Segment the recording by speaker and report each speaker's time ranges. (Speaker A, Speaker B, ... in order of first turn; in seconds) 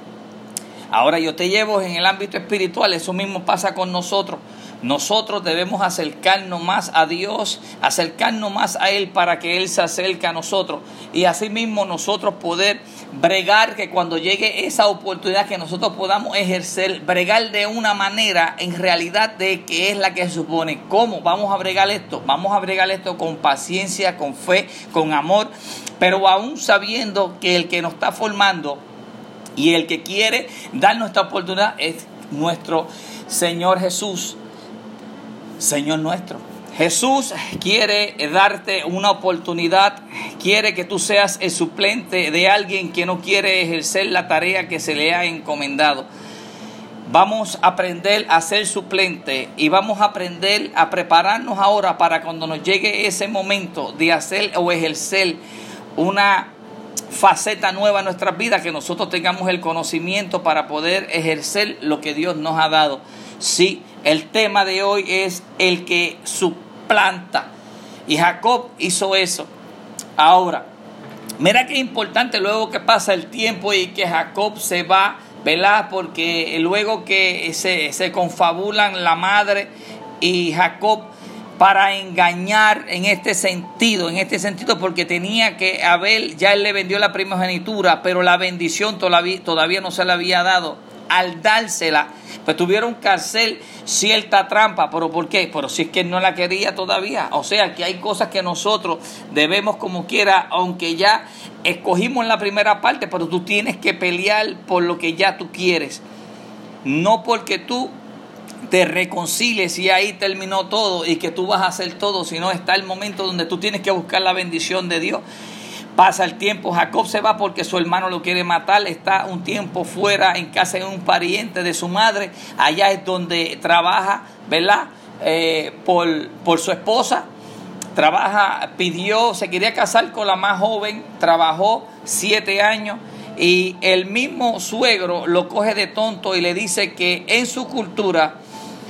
Speaker A: 0.9-28.8, 29.6-34.4, 35.6-46.0, 47.1-55.4, 56.0-56.5, 57.1-67.5, 68.1-69.5, 70.2-70.7, 71.4-106.0, 106.8-107.9, 108.7-115.2, 116.0-127.2, 128.0-138.3